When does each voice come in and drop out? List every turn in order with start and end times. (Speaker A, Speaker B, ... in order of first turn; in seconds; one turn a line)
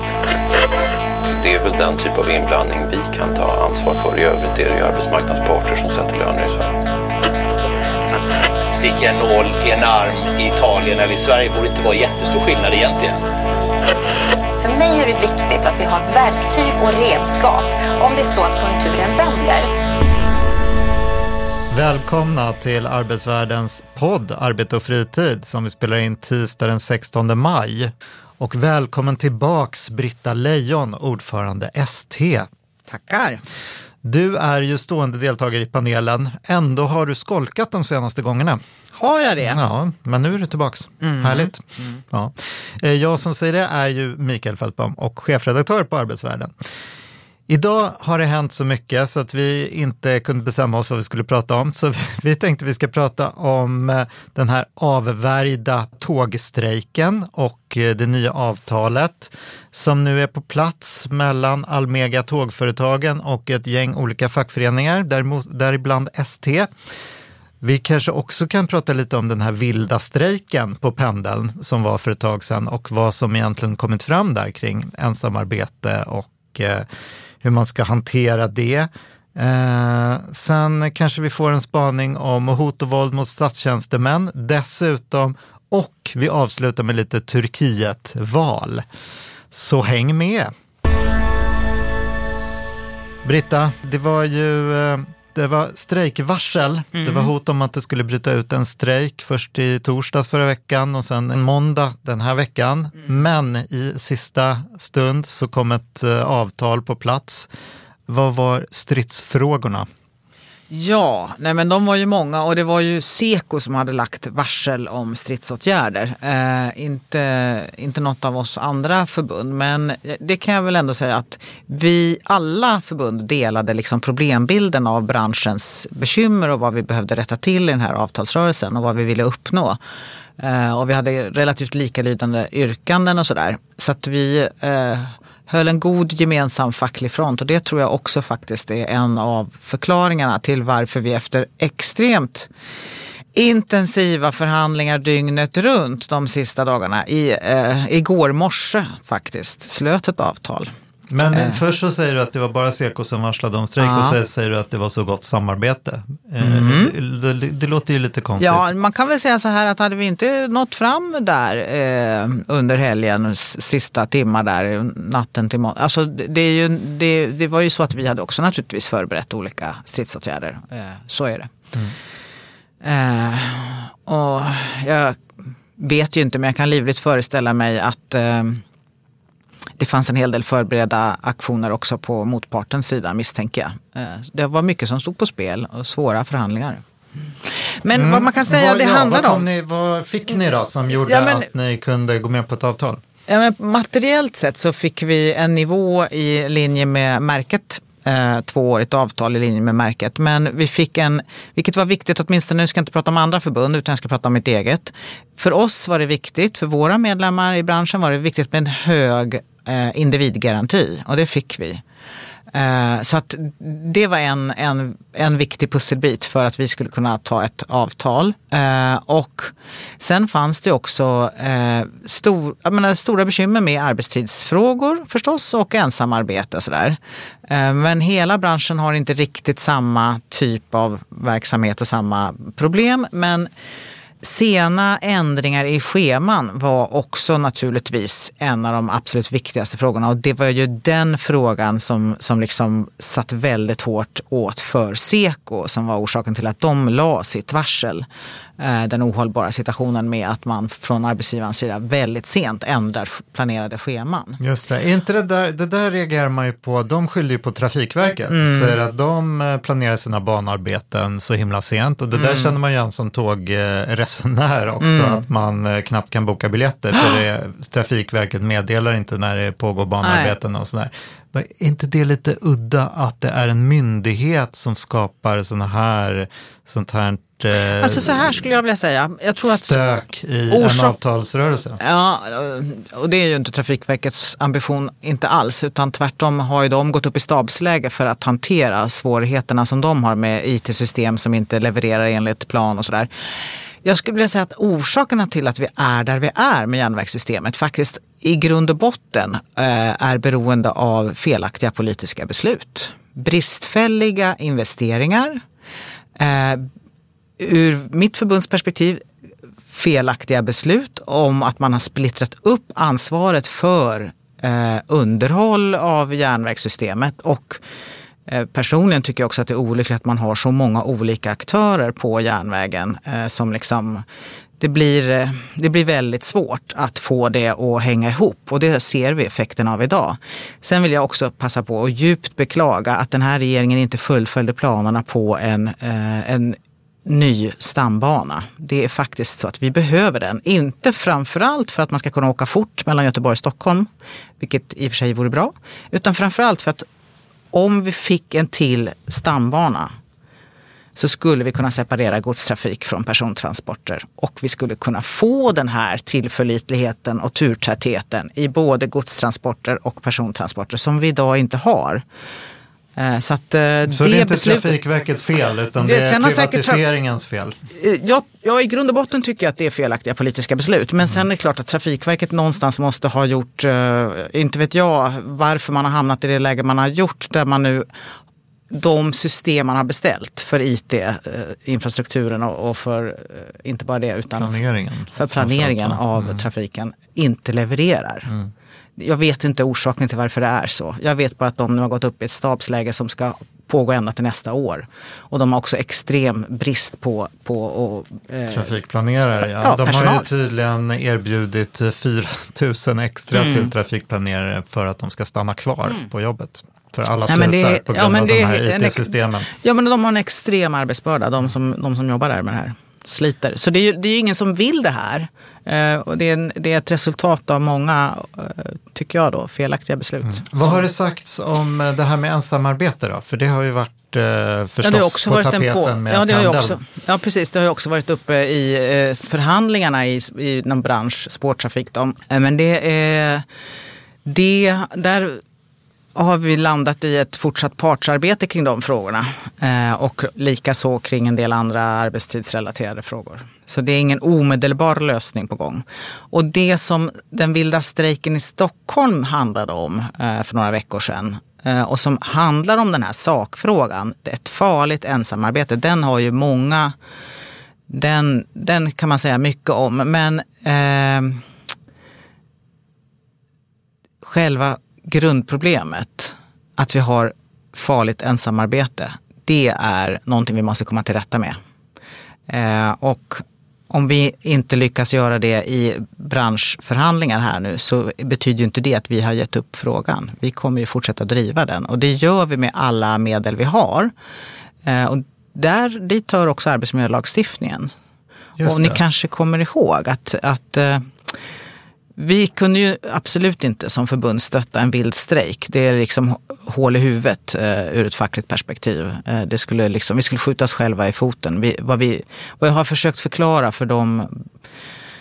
Speaker A: 1.3-6.7
Speaker B: 8.7-13.2
Speaker C: 14.6-19.7
Speaker D: 21.7-32.5
Speaker E: 32.9-33.4
Speaker D: 34.0-38.6
Speaker E: 39.0-39.6
Speaker D: 39.4-46.5
Speaker E: 41.0-42.0
Speaker D: 47.5-66.7
Speaker D: 67.6-76.9
Speaker D: 77.4-88.8
Speaker D: 89.5-90.5
Speaker D: 93.2-107.5
Speaker E: 97.0-97.3
Speaker D: 108.1-109.9
Speaker E: 110.7-129.8
Speaker E: 130.4-142.5
Speaker E: 143.3-150.7
Speaker D: 151.1-158.7
Speaker E: 151.3-151.6
Speaker E: 153.8-154.2
Speaker E: 156.4-156.9
Speaker E: 158.4-171.5
Speaker E: 172.8-175.2
Speaker E: 175.8-178.6
Speaker E: 179.8-186.8
Speaker E: 187.5-189.4
Speaker D: 187.9-193.0
Speaker E: 191.0-191.5
Speaker E: 193.3-211.8
Speaker E: 212.5-233.5
Speaker E: 234.2-248.1
Speaker E: 248.6-254.4
Speaker D: 254.4-278.4
Speaker E: 258.3-258.8
Speaker E: 262.1-262.5
Speaker E: 264.8-265.2
Speaker E: 270.0-270.4
Speaker E: 277.8-279.8
Speaker D: 279.4-281.8
Speaker E: 280.5-281.0
Speaker E: 281.8-293.1
Speaker E: 293.8-305.4
Speaker E: 306.2-306.7
Speaker E: 307.4-309.0
Speaker E: 309.7-317.6
Speaker E: 318.3-324.0
Speaker E: 324.6-343.9
Speaker E: 344.4-346.9
Speaker E: 347.5-349.9
Speaker E: 350.9-362.0
Speaker E: 362.9-364.8
Speaker D: 363.9-367.5
Speaker E: 365.8-366.8
Speaker E: 367.7-377.9
Speaker E: 378.7-384.6
Speaker D: 384.4-386.4
Speaker E: 385.1-388.3
Speaker E: 389.0-398.7
Speaker D: 398.5-409.5
Speaker E: 399.6-400.3
Speaker E: 403.3-403.7
Speaker E: 407.3-420.8
Speaker D: 420.2-426.8
Speaker E: 424.8-433.4
Speaker E: 434.2-435.4
Speaker E: 436.1-456.9
Speaker E: 457.9-461.4
Speaker E: 464.2-471.6
Speaker E: 472.5-484.1
Speaker E: 484.8-487.9
Speaker D: 488.6-489.0
Speaker E: 488.6-491.3
Speaker E: 492.1-504.4